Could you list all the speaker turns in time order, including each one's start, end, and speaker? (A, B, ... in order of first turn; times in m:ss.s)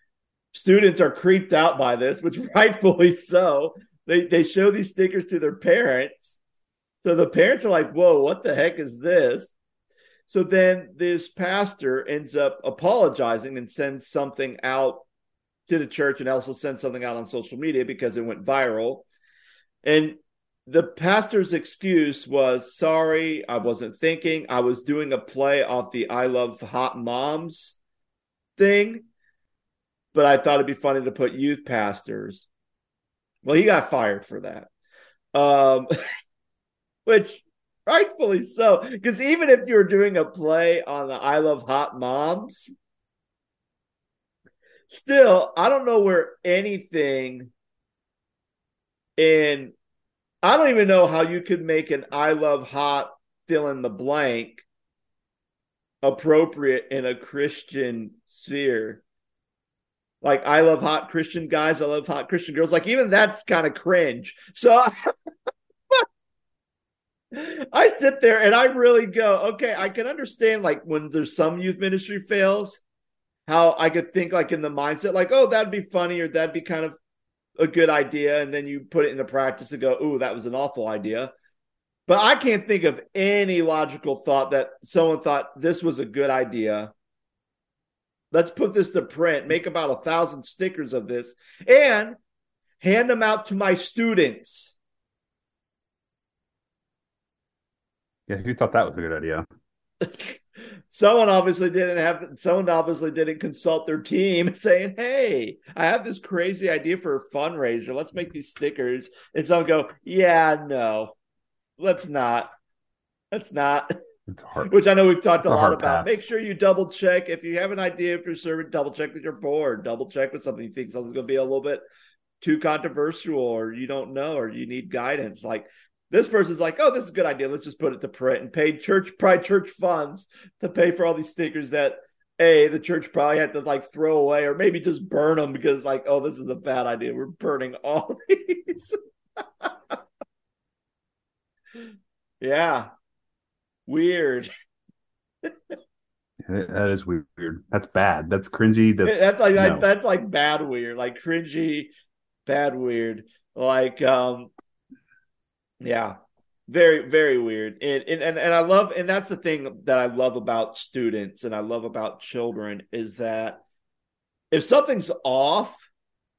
0:00.5-0:06.4 A
0:07.0-0:09.5 A
0:10.3-0:15.0 A
0:15.7-0:19.0 A
0:19.8-0:27.8 A
0:28.6-0:29.0 A
0:30.1-0:32.5 A
0:33.4-0:34.7 A
0:35.3-0:35.9 A
0:37.0-0:42.7 A
0:44.9-0:47.5 A
0:49.2-0:49.8 A
0:50.4-0:54.6 A
0:56.0-0:59.0 A
1:00.2-1:05.1 A
1:07.3-1:12.8 A
1:13.5-1:17.0 A
1:17.6-1:21.3 A
1:22.1-1:26.9 A
1:28.3-1:32.2 A
1:32.8-1:34.8 A
1:38.3-1:39.4 B
1:40.0-1:51.1 A
1:51.8-1:52.5 A
1:53.3-1:53.9 A
1:54.3-1:54.7 B
1:54.6-2:01.8 A
1:55.4-1:56.1 B
2:02.4-2:20.0 A
2:22.4-2:22.9 A
2:23.9-2:24.5 A
2:26.4-2:29.9 B
2:29.0-2:31.9 A
2:32.4-2:34.5 A
2:35.8-2:43.6 A
2:44.5-2:45.9 A